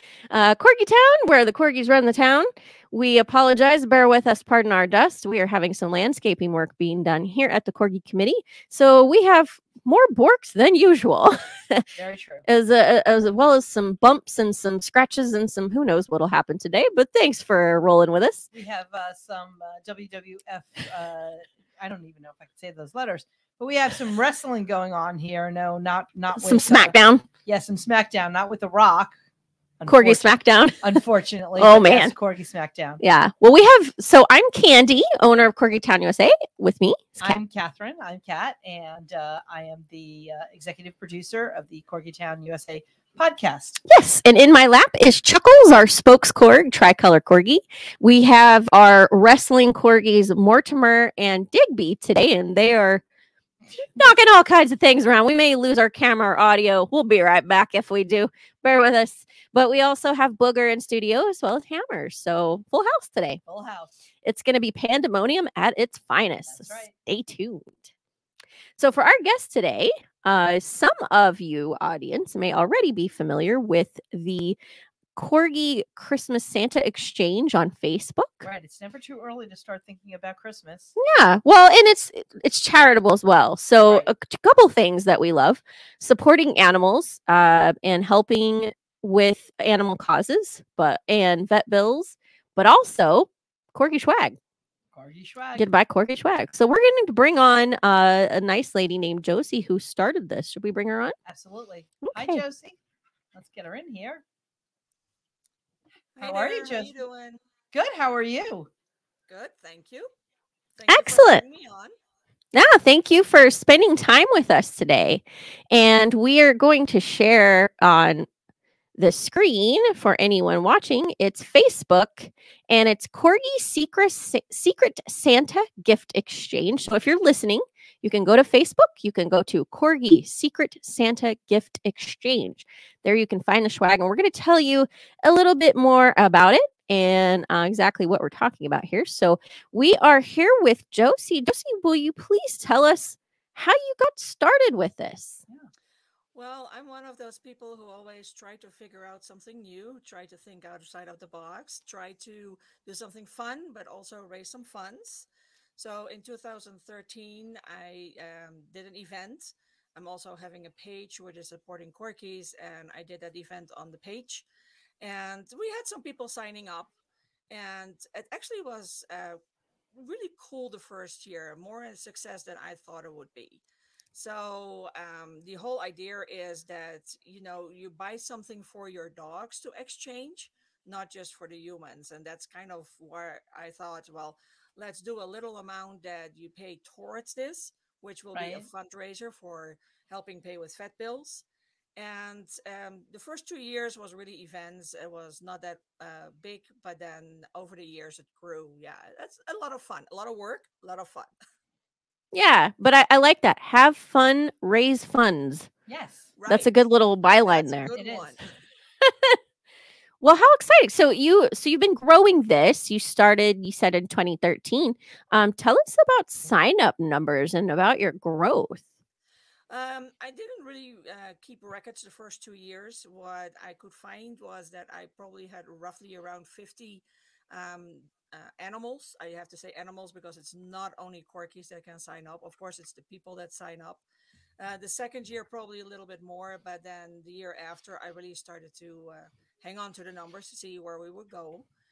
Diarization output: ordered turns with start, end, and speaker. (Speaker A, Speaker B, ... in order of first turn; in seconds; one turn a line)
Speaker A: 0.3-11.8
Speaker B: 11.9-12.4
Speaker A: 12.5-18.5
Speaker B: 18.5-29.1
Speaker A: 26.4-27.2
Speaker B: 29.8-30.3
Speaker A: 29.9-31.0
Speaker B: 30.8-33.0
Speaker A: 31.6-32.1
Speaker A: 33.0-37.4
Speaker B: 37.2-43.8
Speaker A: 43.9-53.0
Speaker B: 53.7-54.2
Speaker A: 54.0-63.4
Speaker B: 63.4-64.0
Speaker A: 64.2-67.9
Speaker B: 66.4-66.9
Speaker A: 68.8-74.6
Speaker A: 75.1-78.5
Speaker B: 78.4-80.9
Speaker A: 81.0-94.4
Speaker B: 94.9-95.7
Speaker A: 95.5-101.1
Speaker B: 101.2-102.8
Speaker A: 102.0-102.4
Speaker B: 103.3-104.2
Speaker C: 106.2-107.4
Speaker B: 106.2-106.9
Speaker B: 107.7-108.7
Speaker C: 109.3-110.1
Speaker C: 110.8-111.9
Speaker A: 110.9-111.4
Speaker A: 112.5-118.3
Speaker A: 119.0-145.4
Speaker C: 146.3-164.4
Speaker C: 165.0-166.9
Speaker C: 167.5-169.4
Speaker C: 169.9-173.6
Speaker C: 174.1-191.4
Speaker B: 188.3-188.7
Speaker C: 192.0-201.3
Speaker A: 202.3-205.7
Speaker B: 205.9-206.3
Speaker C: 206.4-206.7
Speaker A: 206.5-207.9
Speaker C: 207.3-208.5
Speaker B: 207.9-208.4
Speaker A: 209.0-209.4
Speaker A: 210.2-218.9
Speaker C: 219.7-234.0
Speaker C: 234.6-241.7